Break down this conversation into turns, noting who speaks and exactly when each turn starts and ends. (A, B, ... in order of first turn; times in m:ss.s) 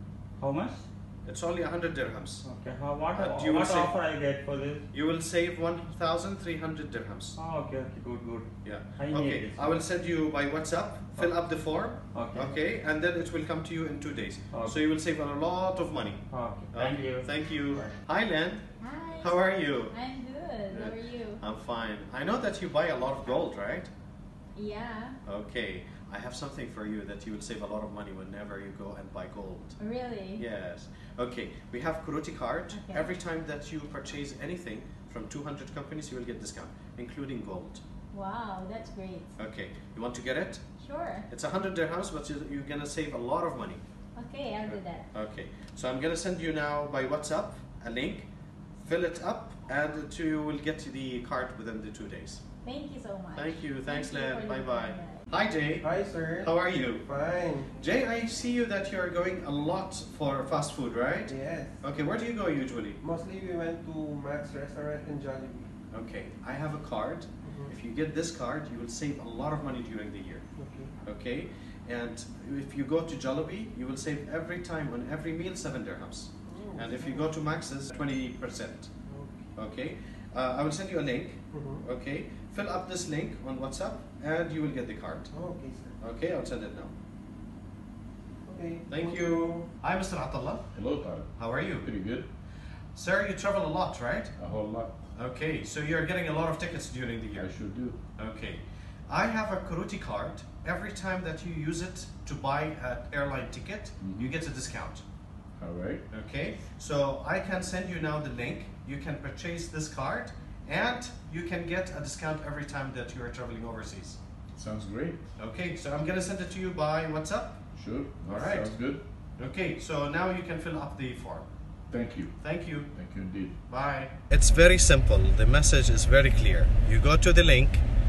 0:00.4-0:00.9 A
0:01.2-0:02.4 B
0:02.4-0:04.9 A
0:03.1-0:03.9 B
0:04.9-0:07.4 B
0:07.4-0:09.8 A
0:08.6-0:20.0 B
0:11.2-0:12.6 A
0:14.5-0:14.8 A
0:16.3-0:17.9 A
0:18.8-0:21.4 C
0:20.7-0:23.9 B
0:24.6-0:25.2 C
0:25.2-0:29.8 B
0:29.8-0:30.4 C
0:30.4-0:37.8 B
0:32.7-0:33.1 C
0:38.1-0:39.4 C
0:39.4-0:40.6 B
0:40.8-0:41.3 C
0:41.2-0:43.8 B
0:44.2-0:45.1 C
0:44.7-0:48.3 B
0:48.8-0:52.4 B
0:52.6-0:55.3 C
0:53.3-0:57.1 B
0:55.8-0:57.8 D
0:57.7-1:03.0 B
1:01.2-1:01.8 D
1:03.0-1:05.7 D
1:05.9-1:10.4 B
1:07.4-1:07.7 D
1:10.6-1:10.9 D
1:11.0-1:18.9 B
1:16.5-1:17.3 D
1:19.1-1:19.5 D
1:19.6-1:25.3 B
1:21.5-1:21.8 D
1:25.3-1:26.0 D
1:26.0-1:26.9 B
1:28.4-1:29.7 D
1:28.9-1:30.7 B
1:30.7-1:32.3 E
1:31.4-1:31.9 B
1:33.0-1:34.4 B
1:34.4-1:35.0 E
1:35.1-1:37.5 B
1:37.3-1:38.0 E
1:38.2-1:45.0 B
1:44.0-1:44.3 E
1:45.6-1:46.0 E
1:46.1-1:54.2 B
1:54.6-1:55.2 E
1:55.4-1:58.7 B
1:57.7-1:59.0 E
1:59.4-2:01.5 B
2:01.9-2:03.6 E
2:02.4-2:03.0 B
2:03.6-2:07.8 B